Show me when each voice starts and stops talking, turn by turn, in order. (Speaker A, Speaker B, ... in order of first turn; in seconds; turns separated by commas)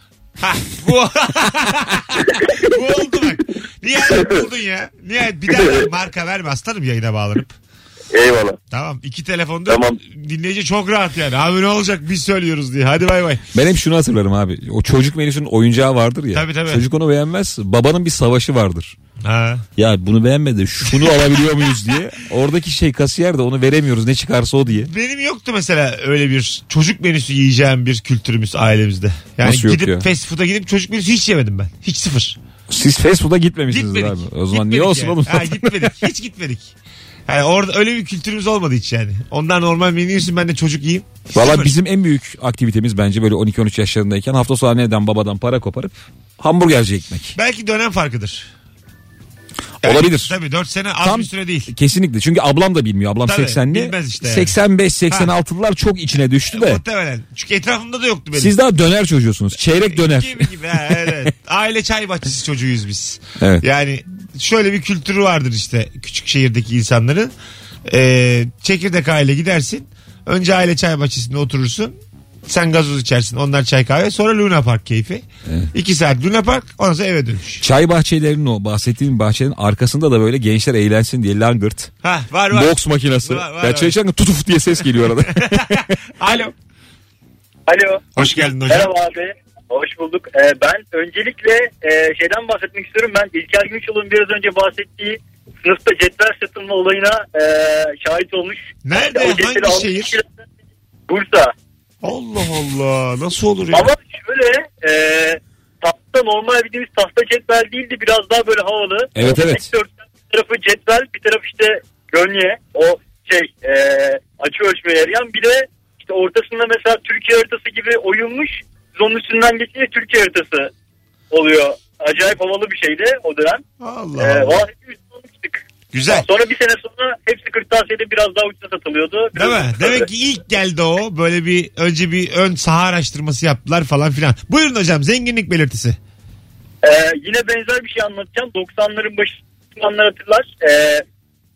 Speaker A: 0.4-2.0, Speaker B: 2.4-2.6, Speaker A: 2.6-7.5, Speaker B: 4.1-4.5, Speaker B: 5.5-5.9, Speaker B: 8.1-8.6, Speaker A: 8.7-13.4, Speaker B: 9.7-10.0, Speaker C: 13.5-18.9, Speaker A: 16.3-16.8, Speaker A: 19.2-19.6, Speaker C: 19.8-24.9, Speaker A: 20.9-21.4, Speaker A: 24.8-32.4, Speaker C: 29.4-30.1, Speaker C: 32.7-36.0, Speaker A: 33.7-36.7, Speaker A: 37.3-41.7, Speaker C: 41.3-47.4, Speaker A: 47.4-48.5, Speaker C: 49.8-50.3, Speaker A: 49.8-51.7, Speaker C: 51.0-56.8, Speaker A: 53.2-54.5, Speaker A: 56.5-58.6, Speaker C: 58.3-61.3, Speaker A: 59.8-67.3, Speaker A: 67.9-71.9, Speaker A: 72.5-77.6, Speaker C: 77.6-81.9, Speaker A: 82.0-83.9, Speaker C: 82.5-85.8, Speaker A: 85.3-85.6, Speaker A: 86.2-86.5, Speaker D: 87.7-88.0, Speaker A: 88.2-88.9, Speaker D: 88.7-100.4, Speaker A: 98.8-100.1, Speaker D: 101.1-101.5, Speaker A: 102.0-103.8, Speaker D: 103.7-120.7, Speaker C: 109.2-109.7, Speaker D: 121.3-123.6, Speaker A: 123.8-124.6, Speaker D: 124.2-130.1, Speaker A: 125.9-126.3, Speaker A: 129.3-136.0, Speaker D: 136.8-141.0